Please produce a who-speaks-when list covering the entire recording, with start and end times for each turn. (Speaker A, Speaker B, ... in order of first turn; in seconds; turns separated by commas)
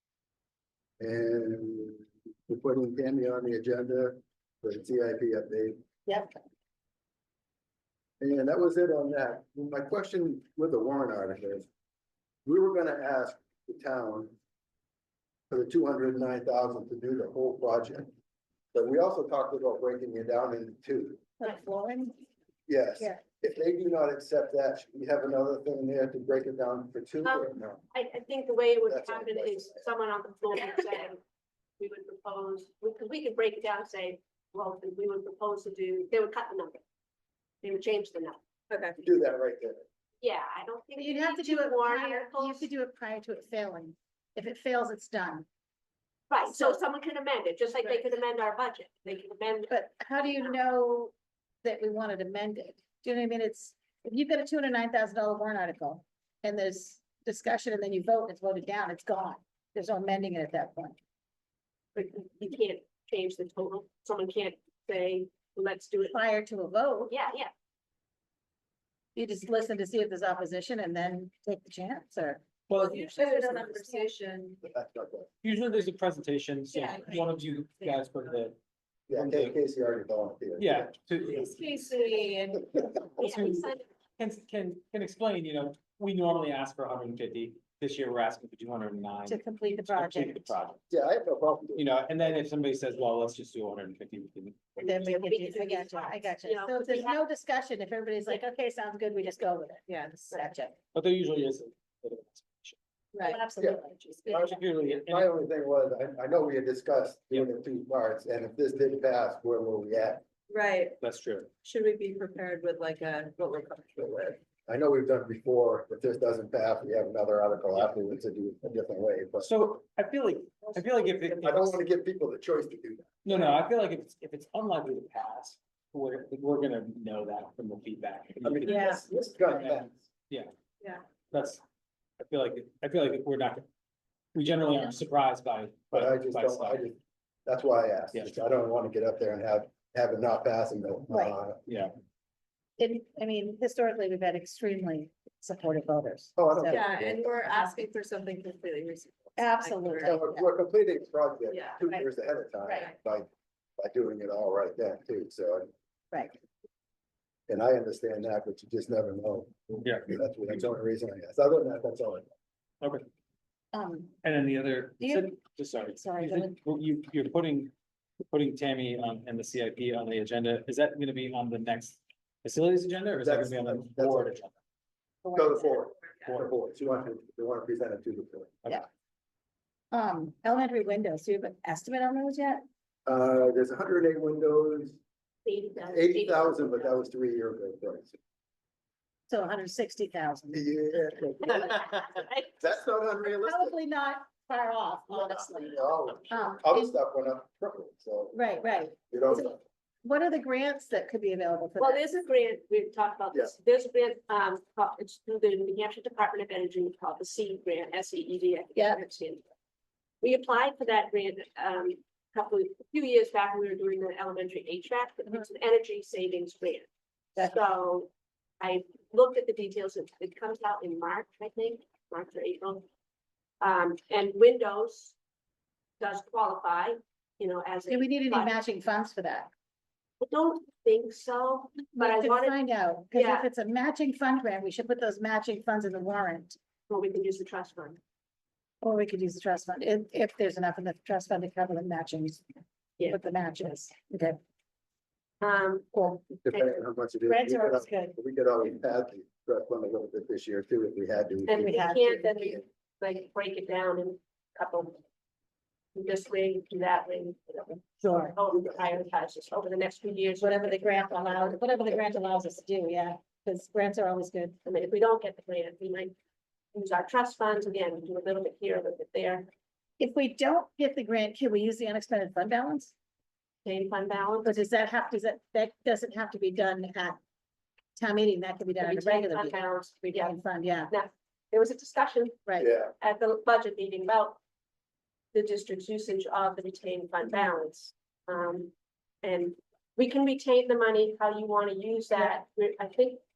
Speaker A: 1.0-5.8, Speaker B: 6.0-6.4, Speaker A: 8.2-11.7, Speaker A: 12.4-14.3, Speaker A: 15.5-18.1, Speaker A: 18.7-21.2, Speaker B: 21.4-22.2, Speaker A: 22.7-27.8, Speaker C: 27.2-31.2, Speaker A: 28.9-29.8, Speaker C: 31.8-36.8, Speaker C: 37.6-38.4, Speaker D: 38.7-39.0, Speaker A: 39.0-39.9, Speaker C: 40.2-42.7, Speaker B: 41.0-45.5, Speaker C: 46.3-50.6, Speaker B: 46.5-46.8, Speaker B: 49.7-61.0, Speaker C: 61.9-66.2, Speaker B: 66.1-67.1, Speaker C: 67.1-67.5, Speaker B: 69.1-72.4, Speaker E: 72.7-73.0, Speaker D: 72.8-74.6, Speaker C: 72.8-73.6, Speaker B: 73.2-74.1, Speaker A: 74.6-75.3, Speaker E: 75.4-78.6, Speaker D: 76.7-77.2, Speaker A: 79.1-80.9, Speaker E: 79.1-79.5, Speaker E: 80.6-81.7, Speaker D: 81.4-82.4, Speaker B: 81.5-83.1, Speaker C: 83.2-83.9, Speaker E: 83.2-90.8, Speaker B: 89.3-90.5, Speaker A: 90.9-91.9, Speaker E: 91.8-94.8, Speaker C: 94.8-97.2, Speaker B: 94.8-100.7, Speaker D: 99.9-100.4, Speaker E: 100.9-102.8, Speaker B: 103.1-104.6, Speaker A: 103.6-110.2, Speaker E: 104.3-105.3, Speaker D: 110.5-111.0, Speaker E: 111.0-111.5, Speaker D: 111.6-114.4, Speaker A: 114.7-119.5, Speaker E: 119.4-121.8, Speaker D: 120.8-121.3, Speaker A: 121.4-123.5, Speaker E: 123.2-130.5, Speaker A: 128.4-130.0, Speaker B: 128.7-129.1, Speaker E: 131.3-131.6, Speaker E: 132.2-133.7, Speaker E: 134.3-136.8, Speaker A: 135.9-141.6, Speaker E: 141.7-141.9, Speaker B: 142.8-146.9, Speaker A: 146.3-147.4, Speaker D: 146.7-150.2, Speaker B: 147.5-147.8, Speaker B: 149.4-150.5, Speaker A: 150.0-155.7, Speaker D: 151.5-151.8, Speaker A: 157.5-162.3, Speaker E: 159.8-160.1, Speaker B: 163.7-164.1, Speaker E: 164.2-167.7, Speaker B: 165.0-165.3, Speaker B: 165.9-166.6, Speaker E: 168.3-174.5, Speaker A: 173.2-174.4, Speaker B: 175.2-175.8, Speaker A: 175.3-178.7, Speaker B: 179.9-182.6, Speaker A: 183.1-185.0, Speaker C: 185.4-187.1, Speaker A: 185.9-188.2, Speaker B: 189.3-190.7, Speaker A: 190.5-193.7, Speaker C: 191.4-192.5, Speaker B: 193.3-196.9, Speaker A: 195.1-198.4, Speaker B: 198.3-199.5, Speaker A: 199.1-199.6, Speaker B: 200.0-202.0, Speaker C: 201.8-209.4, Speaker C: 210.2-222.8, Speaker C: 223.6-225.2, Speaker C: 226.0-228.6, Speaker B: 227.9-229.5, Speaker C: 230.2-232.6, Speaker B: 231.9-236.6, Speaker C: 233.1-233.5, Speaker C: 236.9-238.0, Speaker B: 238.8-242.4, Speaker B: 243.1-244.4, Speaker C: 245.4-246.7, Speaker B: 245.9-246.2, Speaker A: 246.4-251.8, Speaker B: 247.3-248.2, Speaker C: 251.5-255.0, Speaker B: 251.6-252.3, Speaker C: 255.9-262.0, Speaker B: 258.0-258.4, Speaker A: 258.5-258.9, Speaker B: 260.4-264.6, Speaker C: 264.6-266.1, Speaker C: 266.7-269.5, Speaker B: 270.0-272.9, Speaker C: 273.6-274.6, Speaker B: 274.4-277.2, Speaker B: 277.9-280.9, Speaker C: 278.8-280.4, Speaker C: 280.9-282.4, Speaker A: 282.6-282.9, Speaker C: 283.0-284.4, Speaker C: 285.3-288.7, Speaker C: 289.2-293.2